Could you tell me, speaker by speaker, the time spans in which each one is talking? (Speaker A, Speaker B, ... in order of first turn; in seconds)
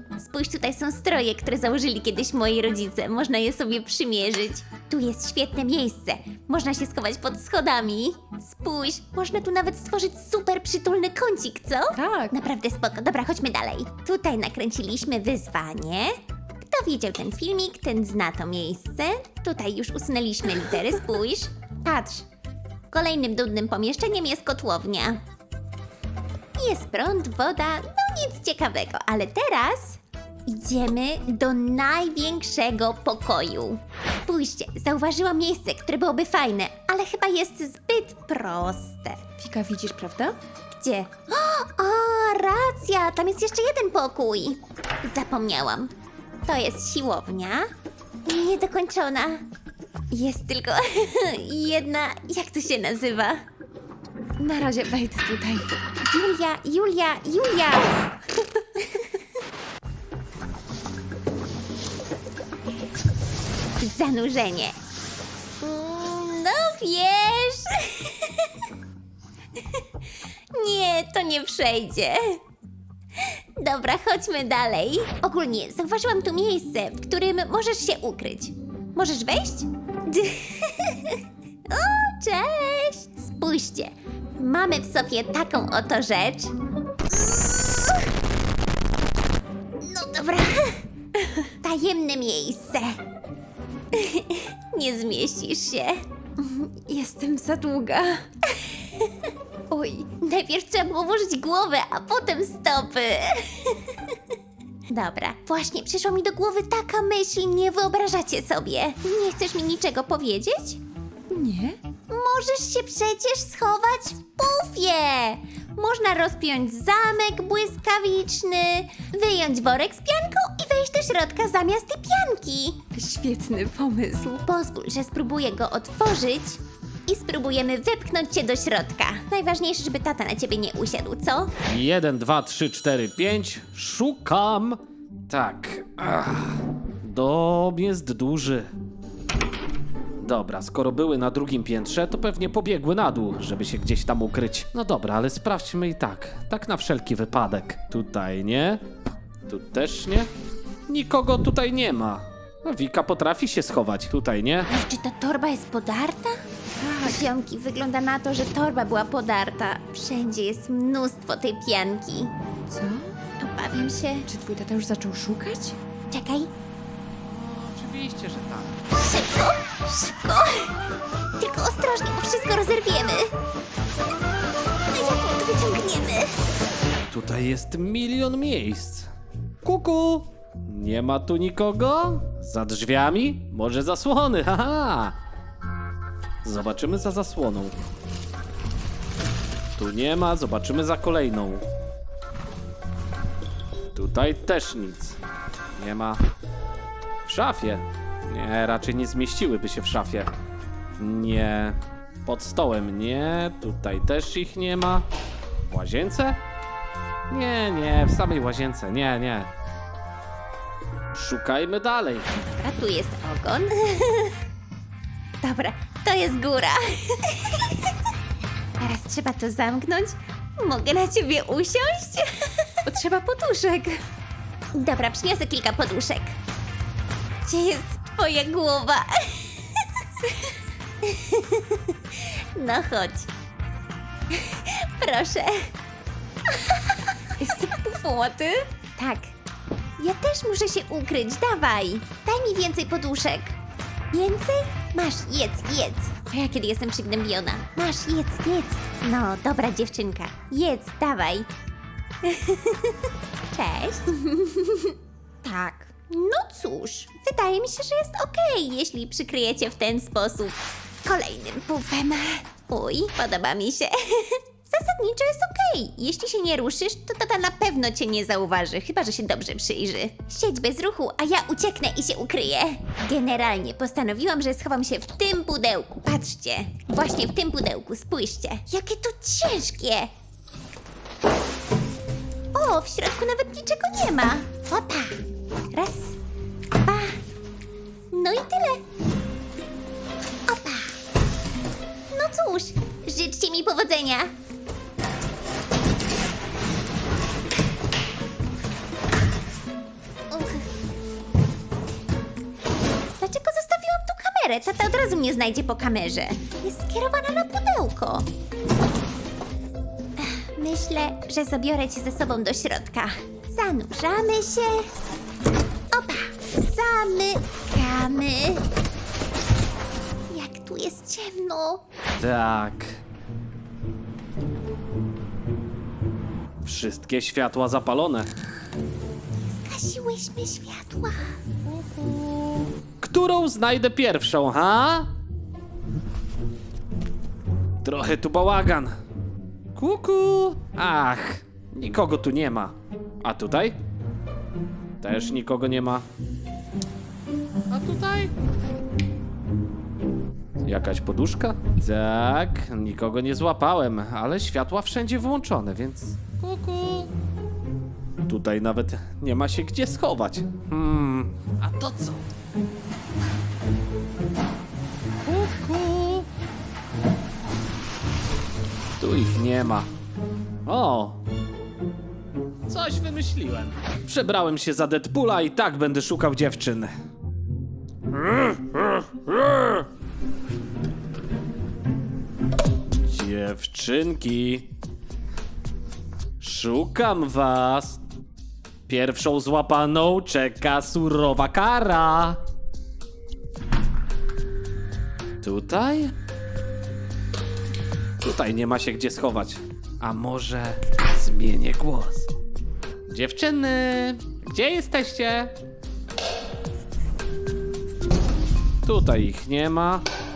Speaker A: 0.2-22.3, 22.9-25.2, 26.6-39.2, 40.7-45.9, 46.4-47.7, 48.2-49.4, 50.1-53.4, 56.1-58.0, 63.8-64.8, 65.6-68.5, 70.5-72.4, 73.2-86.5, 87.2-88.0, 89.8-90.8, 91.6-93.0, 93.9-96.0, 100.2-104.1, 104.9-110.8, 112.1-122.8, 124.4-131.5, 154.7-156.4, 157.0-162.3, 163.4-164.3, 166.1-166.5, 168.9-170.8, 171.4-173.3, 174.9-176.3, 212.4-214.3, 215.4-217.9, 218.8-222.8, 224.7-226.3, 227.4-233.3, 234.3-235.7, 236.5-237.3, 239.0-239.3, 240.0-243.6, 244.1-251.5, 252.2-254.9, 256.1-280.1, 282.5-285.2, 285.7-286.1, 286.8-287.2, 288.1-288.8, 290.5-291.0, 292.1-294.3, 300.3-300.6, 303.1-308.3, 310.2-314.9, 315.9-318.6, 320.3-321.8, 329.4-331.4
Speaker B: 11.9-12.3, 39.4-40.4, 54.4-55.8, 96.4-98.2, 99.7-100.1, 111.3-111.8, 122.9-124.4, 156.8-157.1, 162.7-163.2, 164.3-165.8, 222.8-224.0, 237.4-238.7, 255.4-255.9
Speaker C: 131.6-138.7, 140.2-148.8, 149.5-150.3, 150.9-154.7, 167.2-168.8, 177.1-179.1, 179.6-185.2, 186.4-187.8, 189.8-191.6, 193.9-195.2, 195.7-196.2, 197.2-200.3, 201.0-205.1, 205.6-206.4, 207.3-209.5, 211.1-212.3, 322.2-323.0, 326.6-328.3, 331.6-335.1, 337.8-338.9, 339.7-343.8, 345.0-346.1, 347.7-348.3, 350.6-357.1, 358.2-362.3, 365.2-366.3, 369.0-369.9, 370.6-371.2, 372.7-376.9, 378.1-379.9, 383.0-384.7, 386.4-388.0, 388.9-392.4, 395.4-396.1, 398.2-402.3, 403.1-405.5, 408.8-410.0